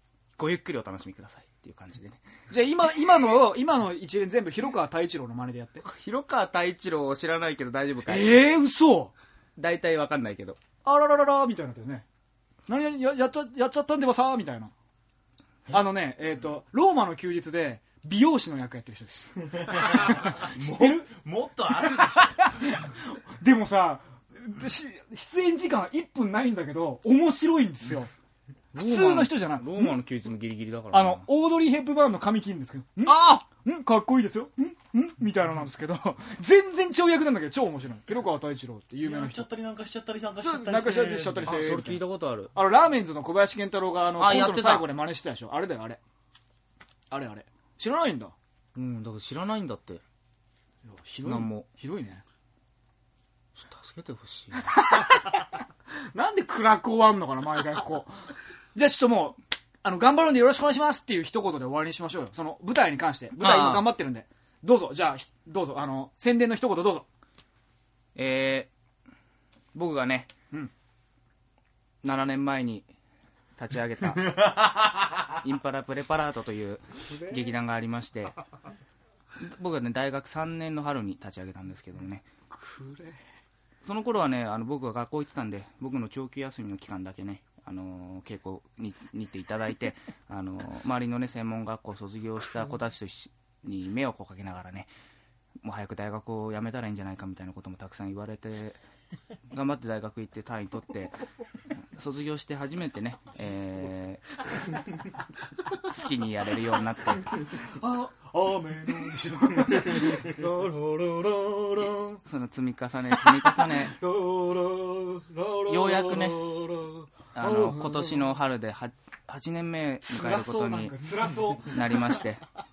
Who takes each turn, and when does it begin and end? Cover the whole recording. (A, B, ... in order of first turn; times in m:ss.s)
0:00.4-0:02.2 A
0:02.5-0:05.8 B
0:05.8-0:08.4 A
0:08.1-0:09.1 B
0:09.6-0:10.6 A
0:10.8-0:12.1 B
0:12.7-0:14.7 B
0:15.7-0:21.1 B
0:19.5-0:22.8 C
0:21.7-0:28.1 B
0:28.7-0:31.2 A
0:28.8-0:30.0 B
0:30.9-0:39.5 B
0:39.0-0:41.6 C
0:40.4-0:42.0 B
0:41.4-0:42.5 A
0:42.5-0:46.0 B
0:44.2-0:44.9 A
0:47.1-0:48.3 B
0:48.7-0:50.0 A
0:50.8-0:52.2 B
0:51.2-0:51.7 A
0:53.6-0:54.8 A
0:54.6-0:58.1 B
0:58.7-1:07.1 B
1:03.4-1:03.9 A
1:08.2-1:08.7 A
1:09.7-1:10.3 A
1:12.0-1:12.9 A
1:13.6-1:14.5 A
1:15.4-1:18.4 A
1:19.4-1:22.2 A
1:22.5-1:23.2 B
1:23.8-1:34.9 A
1:35.6-1:38.8 A
1:39.5-1:41.2 A
1:41.9-1:44.2 A
1:45.8-1:47.4 A
1:47.8-1:52.2 B
1:48.2-1:50.5 C
1:52.2-1:54.0 A
1:53.2-1:58.3 B
1:55.7-1:56.5 A
1:57.3-2:01.0 A
2:00.0-2:02.2 B
2:01.1-2:01.6 C
2:01.6-2:02.4 A